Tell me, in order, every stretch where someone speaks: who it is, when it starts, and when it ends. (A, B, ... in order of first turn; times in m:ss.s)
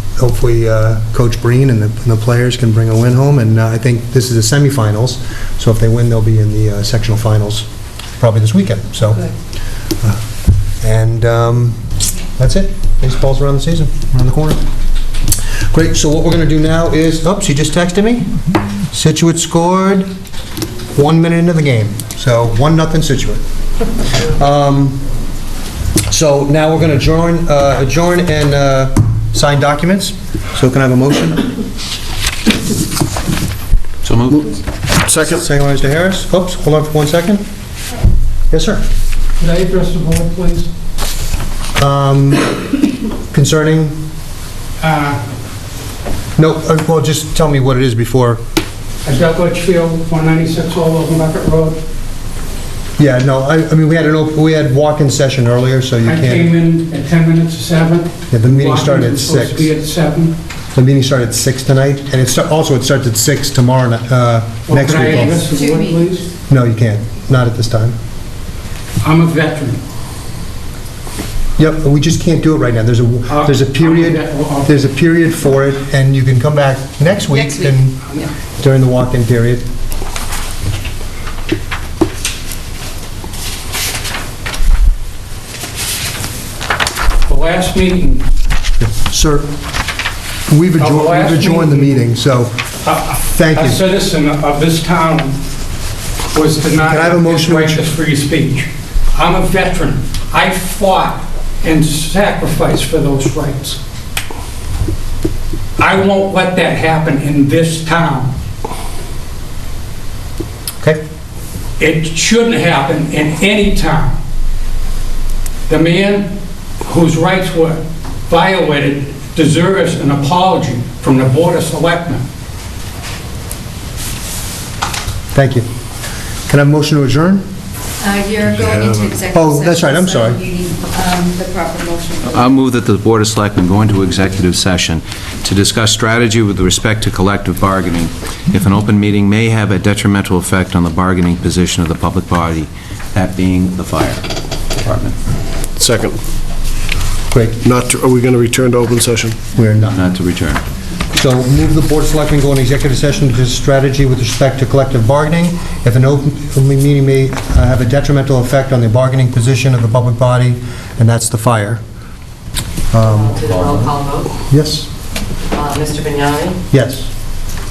0:00.2-0:07.7 A
0:08.2-0:09.3 A
0:10.8-0:11.8 A
0:12.4-0:14.6 A
0:15.7-0:18.3 A
0:18.9-0:20.1 A
0:21.0-0:23.4 A
0:24.0-0:25.0 A
0:26.1-0:31.5 A
0:34.0-0:34.4 B
0:35.1-0:35.4 C
0:35.2-0:37.4 A
0:38.5-0:38.8 A
0:39.4-0:40.7 D
0:41.8-0:42.6 A
0:43.3-0:44.0 A
0:44.8-0:45.2 D
0:46.4-0:48.4 A
0:49.0-0:51.8 D
0:53.0-0:56.5 A
0:56.0-1:00.4 D
0:58.3-0:59.7 A
1:00.7-1:05.5 A
1:04.7-1:06.3 D
1:05.3-1:06.0 E
1:06.5-1:08.0 A
1:09.0-1:09.8 D
1:11.6-1:18.1 A
1:13.3-1:14.8 D
1:18.6-1:19.6 A
1:27.3-1:28.3 D
1:28.8-1:29.5 A
1:30.5-1:32.7 A
1:30.8-1:32.1 D
1:32.8-1:35.4 D
1:33.2-1:33.8 A
1:36.3-1:43.8 D
1:36.8-1:37.8 A
1:45.8-1:48.3 D
1:51.8-1:54.2 D
1:55.7-2:02.2 D
2:05.3-2:05.7 A
2:06.5-2:07.5 A
2:08.0-2:12.5 E
2:08.4-2:09.1 C
2:09.3-2:10.4 A
2:12.2-2:24.2 B
2:24.8-2:25.2 B
2:25.8-2:26.2 C
2:27.3-2:27.6 A
2:27.6-2:29.4 C
2:29.6-2:30.0 A
2:29.9-2:30.6 B
2:31.2-2:41.8 A
2:42.9-2:43.4 A
2:43.0-2:44.3 F
2:43.4-2:43.9 B
2:44.5-2:44.9 A
2:45.5-2:46.6 F
2:46.7-2:47.1 A